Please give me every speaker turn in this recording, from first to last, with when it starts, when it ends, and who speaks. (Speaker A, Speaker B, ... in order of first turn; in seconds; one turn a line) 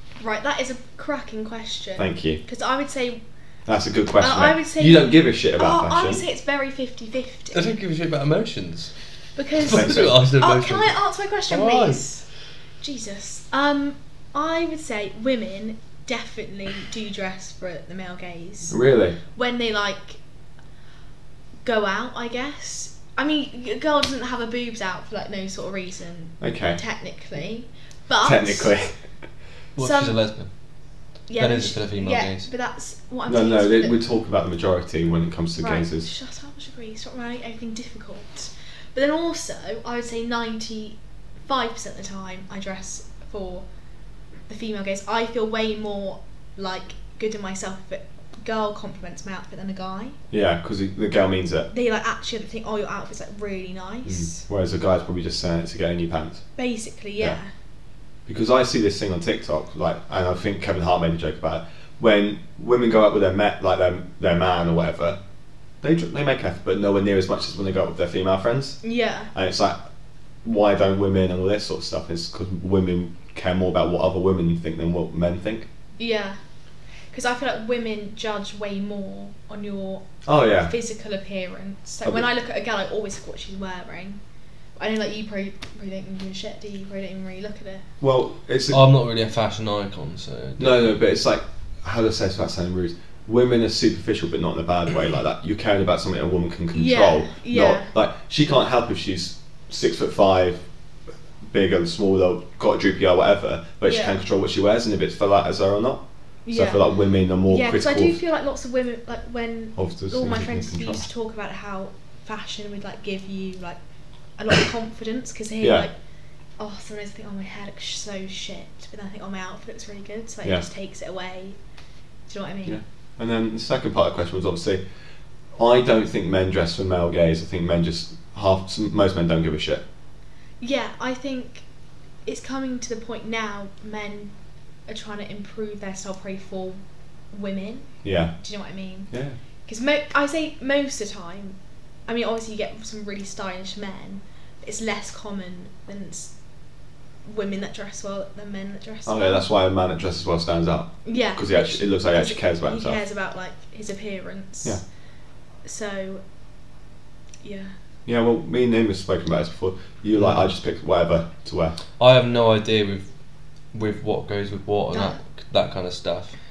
Speaker A: 0.2-3.2
Speaker B: 2.0-2.4
Speaker B: 3.7-6.2
Speaker A: 4.2-7.8
Speaker C: 7.5-8.9
Speaker A: 9.4-12.3
Speaker C: 9.6-12.0
Speaker B: 9.7-10.1
Speaker A: 12.8-18.8
Speaker B: 18.7-19.2
Speaker A: 19.3-20.2
Speaker A: 21.6-28.8
Speaker B: 26.4-26.8
Speaker B: 28.2-29.0
Speaker C: 29.8-30.5
Speaker A: 29.8-30.2
Speaker A: 31.3-34.0
Speaker C: 31.4-32.5
Speaker B: 33.3-36.1
Speaker A: 35.6-43.7
Speaker A: 44.5-50.2
Speaker B: 50.3-51.7
Speaker A: 51.7-54.5
Speaker B: 54.1-56.4
Speaker A: 56.6-57.5
Speaker B: 58.3-65.2
Speaker B: 65.8-68.8
Speaker A: 68.8-69.3
Speaker B: 69.3-69.8
Speaker B: 70.4-75.7
Speaker A: 76.0-76.4
Speaker A: 77.1-84.2
Speaker B: 80.2-80.7
Speaker A: 84.8-87.9
Speaker B: 88.0-88.8
Speaker C: 88.7-90.9
Speaker B: 90.6-100.7
Speaker A: 96.7-97.9
Speaker B: 101.5-108.2
Speaker A: 103.8-104.2
Speaker A: 106.5-106.8
Speaker A: 107.5-113.8
Speaker B: 109.8-111.1
Speaker A: 114.4-115.9
Speaker B: 115.6-115.9
Speaker A: 116.6-121.6
Speaker A: 122.3-122.8
Speaker B: 122.7-124.8
Speaker B: 125.6-129.8
Speaker A: 130.6-131.7
Speaker A: 132.2-134.3
Speaker A: 134.9-139.1
Speaker B: 138.0-138.3
Speaker B: 139.1-139.4
Speaker A: 139.7-146.3
Speaker A: 147.2-149.5
Speaker B: 149.1-153.0
Speaker A: 151.1-154.8
Speaker A: 155.6-156.2
Speaker A: 157.4-157.7
Speaker B: 158.1-161.8
Speaker C: 160.1-160.5
Speaker C: 162.0-163.1
Speaker C: 163.7-166.4
Speaker A: 164.9-165.2